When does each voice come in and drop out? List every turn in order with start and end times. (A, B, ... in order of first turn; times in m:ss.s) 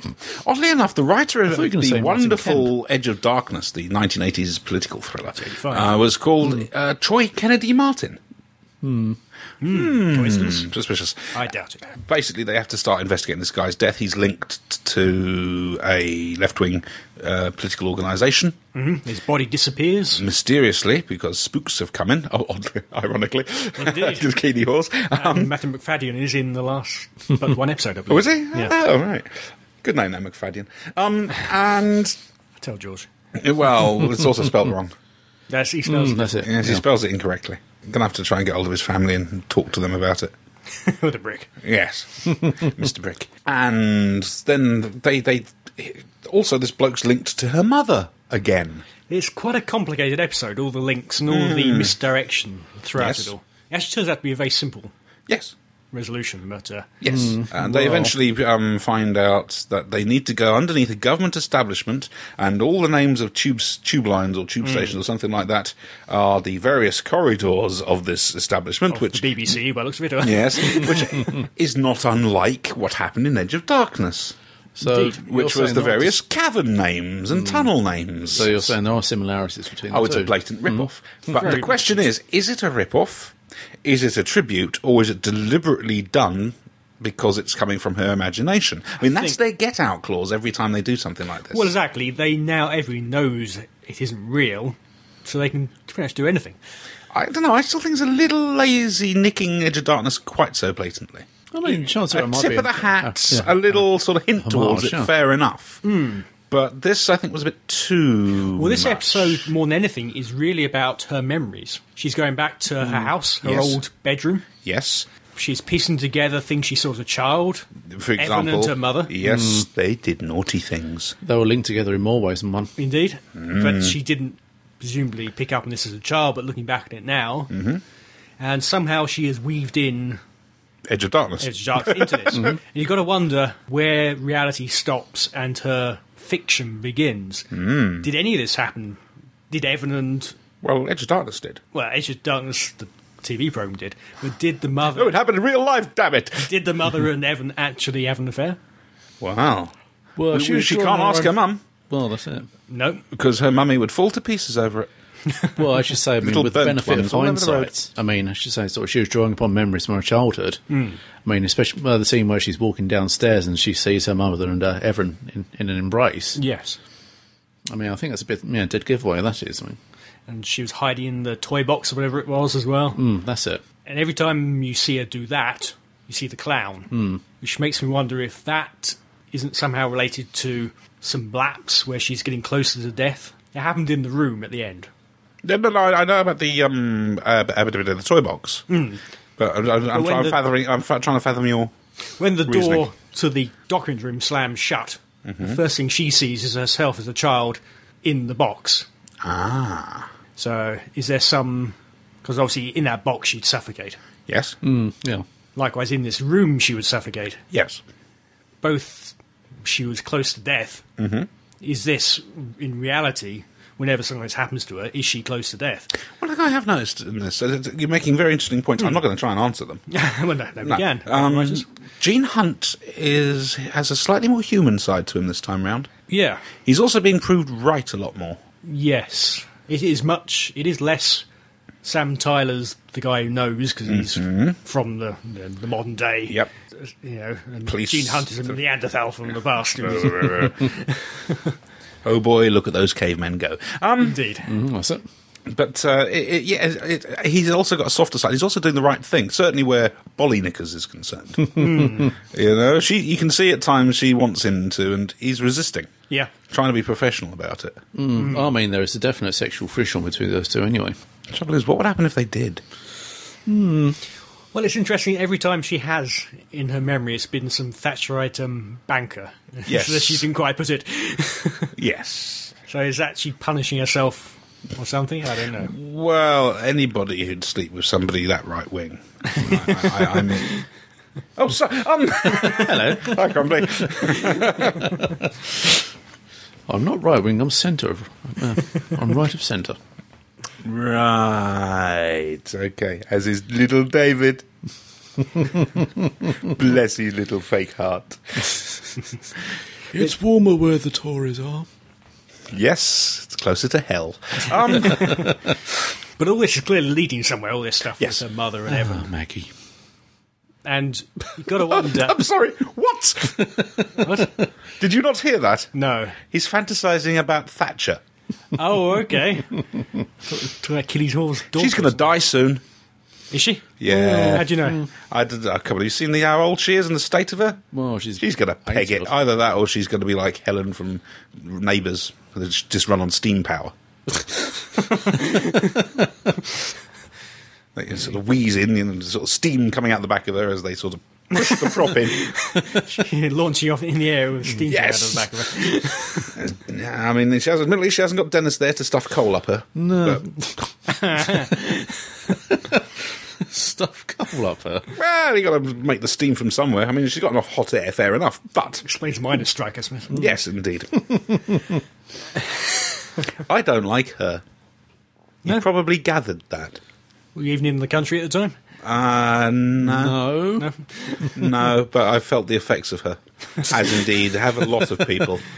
0:00.3-0:08.2 A
0:01.5-0:02.7 B
0:05.3-0:06.0 C
0:08.8-0:09.2 B
0:09.6-0:10.7 C
0:09.6-0:11.4 A
0:11.3-0:11.8 C
0:11.9-0:18.6 A
0:18.7-0:20.2 C
0:20.2-0:25.5 A
0:23.8-0:24.3 C
0:25.2-0:28.7 C
0:28.1-0:32.2 A
0:32.6-0:33.1 C
0:33.4-0:34.9 A
0:35.5-0:36.5 C
0:35.9-0:36.8 B
0:36.4-0:40.3 A
0:40.7-0:41.5 C
0:41.6-0:48.8 A
0:49.1-0:54.9 C
0:51.3-0:51.9 A
0:53.0-0:53.3 A
0:55.3-0:55.5 A
0:55.9-0:56.9 C
0:57.0-1:09.3 A
0:57.1-0:58.1 B
1:04.6-1:04.9 C
1:08.9-1:11.3 C
1:10.2-1:14.3 A
1:14.7-1:16.2 B
1:14.8-1:15.2 C
1:15.2-1:18.7 A
1:17.3-1:17.7 B
1:18.3-1:20.8 B
1:19.9-1:31.7 A
1:21.3-1:21.7 C
1:31.5-1:36.6 C
1:37.1-1:41.3 A
1:41.5-1:43.8 B
1:42.1-1:45.8 A
1:44.4-1:45.1 B
1:45.8-1:46.2 C
1:46.5-1:49.5 A
1:48.5-1:54.5 C
1:52.8-1:53.1 B
1:53.4-1:53.8 A
1:54.6-1:55.1 A
1:55.3-1:59.1 C
1:57.9-2:01.2 A
1:59.2-1:59.7 B
2:01.2-2:02.7 B
2:02.8-2:07.5 C
2:03.4-2:04.0 A
2:07.5-2:07.8 A
2:08.4-2:10.2 C
2:10.9-2:12.5 A
2:11.4-2:20.3 C
2:17.5-2:18.1 A
2:20.6-2:21.6 A
2:21.7-2:25.2 C
2:24.9-2:26.5 A
2:26.4-2:28.6 C
2:29.2-2:29.7 A
2:30.2-2:31.4 B
2:30.3-2:31.6 A
2:31.9-2:32.5 B
2:32.7-2:33.0 C
2:33.1-2:34.9 A
2:35.6-2:40.6 B
2:36.2-2:37.7 A
2:40.7-2:41.0 C
2:41.2-2:46.4 B
2:46.4-2:46.8 C
2:47.7-2:49.8 B
2:50.3-2:53.0 C
2:52.9-2:53.6 B
2:53.8-3:04.9 C
2:56.9-2:57.2 B
3:05.4-3:08.6 A
3:08.7-3:09.0 C
3:09.4-3:11.7 A
3:09.9-3:10.4 C
3:12.2-3:18.9 C
3:12.5-3:12.9 A
3:15.2-3:15.6 A
3:19.2-3:20.1 A
3:20.4-3:24.0 C
3:24.3-3:24.6 A
3:24.6-3:25.2 B
3:25.6-3:27.4 C
3:27.5-3:27.8 A
3:28.6-3:30.8 C
3:31.0-3:31.3 A
3:31.6-3:35.9 C
3:36.2-3:39.8 A
3:39.9-3:41.7 C
3:40.6-3:45.9 A
3:46.1-3:46.5 C
3:46.6-3:48.4 A
3:48.6-3:51.2 C
3:51.8-4:01.5 C
3:53.9-3:54.6 A
3:57.6-3:58.6 A
3:59.8-4:00.8 A
4:02.0-4:04.2 A
4:04.0-4:04.5 C
4:04.4-4:05.0 B
4:05.5-4:15.9 A
4:11.6-4:12.1 C
4:16.5-4:17.8 A
4:17.9-4:21.0 B
4:18.2-4:18.4 C
4:21.3-4:22.6 A
4:23.4-4:24.0 B
4:24.5-4:31.7 C
4:29.7-4:30.2 A
4:31.8-4:32.5 A
4:32.7-4:35.7 C
4:35.6-4:40.6 A
4:41.4-4:45.0 A
4:42.2-4:45.2 B
4:46.7-4:49.8 B
4:50.6-4:54.4 A
4:56.3-4:58.6 A
4:59.9-5:01.7 B
5:02.5-5:05.3 A
5:04.7-5:05.4 C
5:06.2-5:09.1 C
5:08.7-5:09.5 B
5:10.6-5:12.2 C
5:11.6-5:13.9 A
5:14.0-5:14.3 C
5:14.8-5:15.7 A
5:15.7-5:16.2 C
5:16.2-5:18.0 A
5:18.5-5:19.6 C
5:20.2-5:22.1 C
5:21.6-5:22.6 A
5:23.3-5:24.8 C
5:23.8-5:27.6 A
5:23.9-5:24.9 B
5:27.7-5:29.1 B
5:28.2-5:33.7 A
5:35.1-5:35.7 C
5:37.7-5:42.3 A
5:41.4-5:46.4 C
5:44.7-5:45.2 A
5:46.4-5:50.2 A
5:49.8-5:50.6 B
5:50.9-5:52.0 C
5:51.3-5:51.5 B
5:52.5-5:54.9 B
5:54.9-5:58.8 A
5:58.8-6:00.2 C
6:00.1-6:01.0 A
6:01.1-6:01.7 B
6:03.4-6:04.4 A
6:05.4-6:06.8 A
6:07.3-6:08.6 C
6:08.8-6:10.2 A
6:09.8-6:10.7 B
6:10.6-6:11.3 C
6:11.3-6:15.4 A